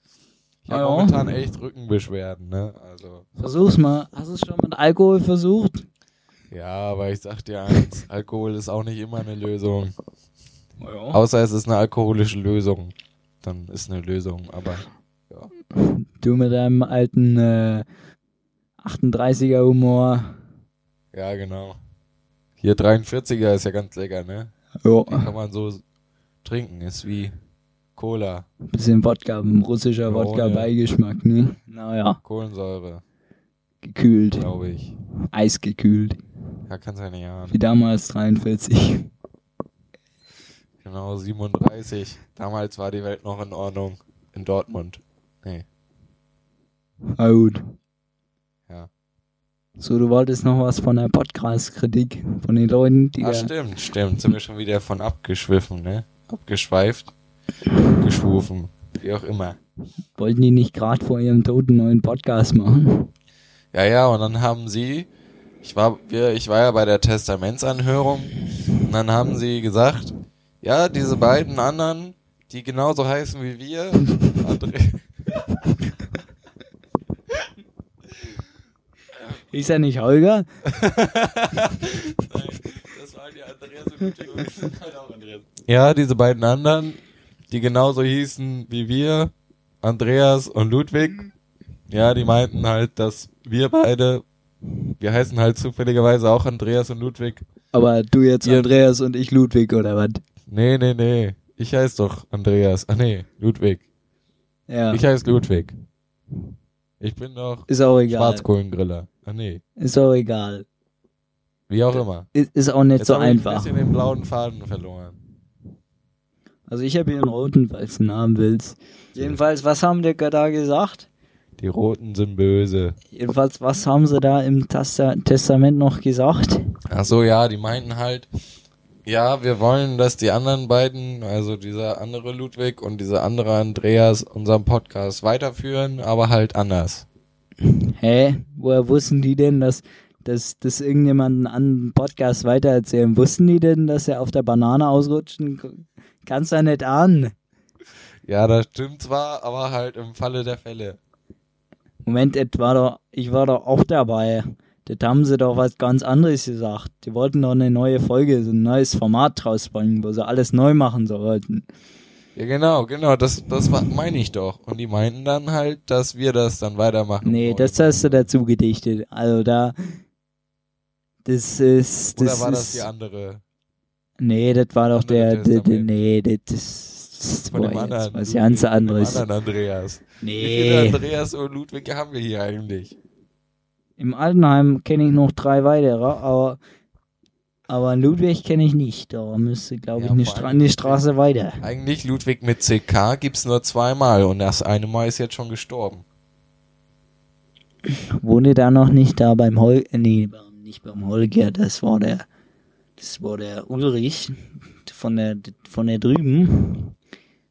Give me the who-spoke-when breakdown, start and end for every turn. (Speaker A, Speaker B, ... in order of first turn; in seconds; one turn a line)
Speaker A: 0.6-3.2
Speaker B: 0.7-1.3
Speaker B: 3.4-5.8
Speaker A: 6.5-9.9
Speaker B: 10.8-11.2
Speaker A: 11.1-15.5
Speaker B: 15.7-17.8
Speaker B: 18.8-20.4
Speaker A: 21.1-21.8
Speaker A: 22.6-24.5
Speaker B: 24.8-25.3
Speaker A: 25.1-25.8
Speaker A: 26.4-27.3
Speaker A: 27.9-28.5
Speaker B: 28.7-32.2
Speaker A: 30.1-30.7
Speaker A: 32.2-33.0
Speaker B: 33.8-34.4
Speaker A: 34.4-34.9
Speaker B: 35.3-36.2
Speaker A: 36.7-37.6
Speaker B: 37.5-39.1
Speaker A: 40.8-45.6
Speaker B: 47.2-47.6
Speaker B: 49.8-53.5
Speaker A: 53.2-57.1
Speaker A: 58.0-59.6
Speaker B: 60.2-63.1
Speaker A: 63.7-65.1
Speaker A: 65.6-75.0
Speaker B: 79.5-80.5
Speaker A: 80.7-87.0
Speaker A: 87.5-91.3
Speaker A: 91.9-94.2
Speaker A: 95.0-97.4
Speaker B: 97.7-100.2
Speaker A: 100.5-103.8
Speaker B: 104.7-105.0
Speaker A: 104.9-105.7
Speaker A: 107.0-109.6
Speaker B: 107.7-108.4
Speaker B: 109.8-110.7
Speaker A: 111.7-112.3
Speaker B: 112.3-113.7
Speaker A: 113.0-115.2
Speaker B: 116.7-121.1
Speaker A: 121.6-123.0
Speaker B: 123.1-126.6
Speaker A: 126.9-128.3
Speaker A: 129.1-137.1
Speaker B: 137.6-147.3
Speaker A: 148.2-151.0
Speaker B: 152.0-161.6
Speaker A: 162.3-168.3
Speaker B: 167.2-169.8
Speaker B: 171.2-172.9
Speaker A: 172.2-173.4
Speaker B: 174.2-179.2
Speaker A: 174.9-175.9
Speaker A: 177.5-182.9
Speaker B: 180.2-181.0
Speaker B: 184.0-186.6
Speaker B: 187.7-191.6
Speaker A: 189.9-191.0
Speaker A: 191.6-196.0
Speaker B: 198.2-202.2
Speaker B: 203.0-206.9